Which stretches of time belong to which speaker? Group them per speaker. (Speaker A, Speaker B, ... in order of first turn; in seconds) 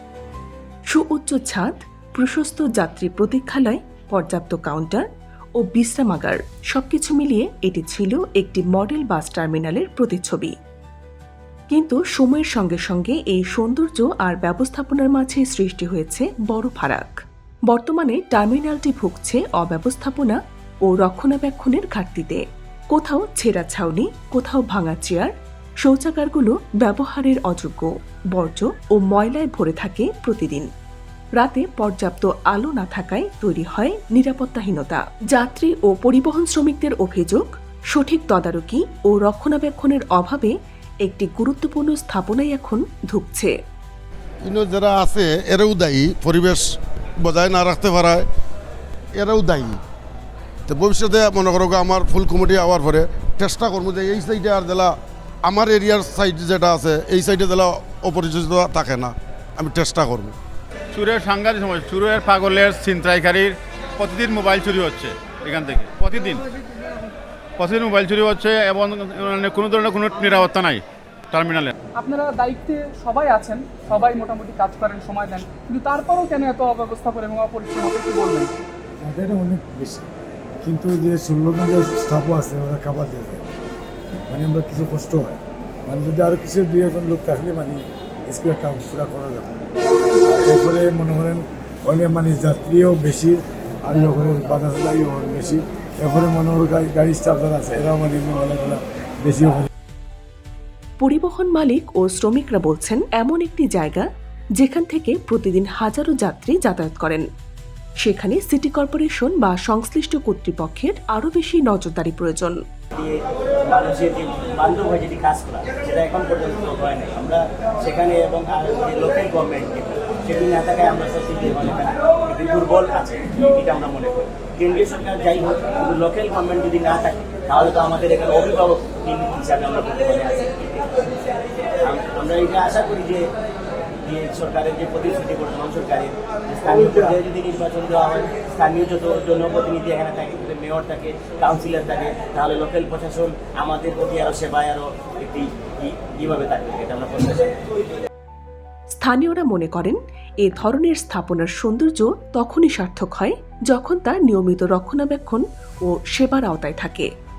Speaker A: 0.9-5.0, 5.6-10.5, 11.7-17.2, 17.7-30.7, 31.4-43.5, 101.0-107.2, 108.0-112.6, 148.9-157.1
Speaker B: 44.4-48.3, 49.1-49.8, 50.7-60.3
Speaker C: 60.9-66.4, 67.6-71.7
Speaker D: 72.0-78.5
Speaker E: 79.0-80.1, 80.6-83.5, 84.3-89.5, 90.2-99.7
Speaker F: 112.9-131.3, 131.8-133.2, 134.0-147.6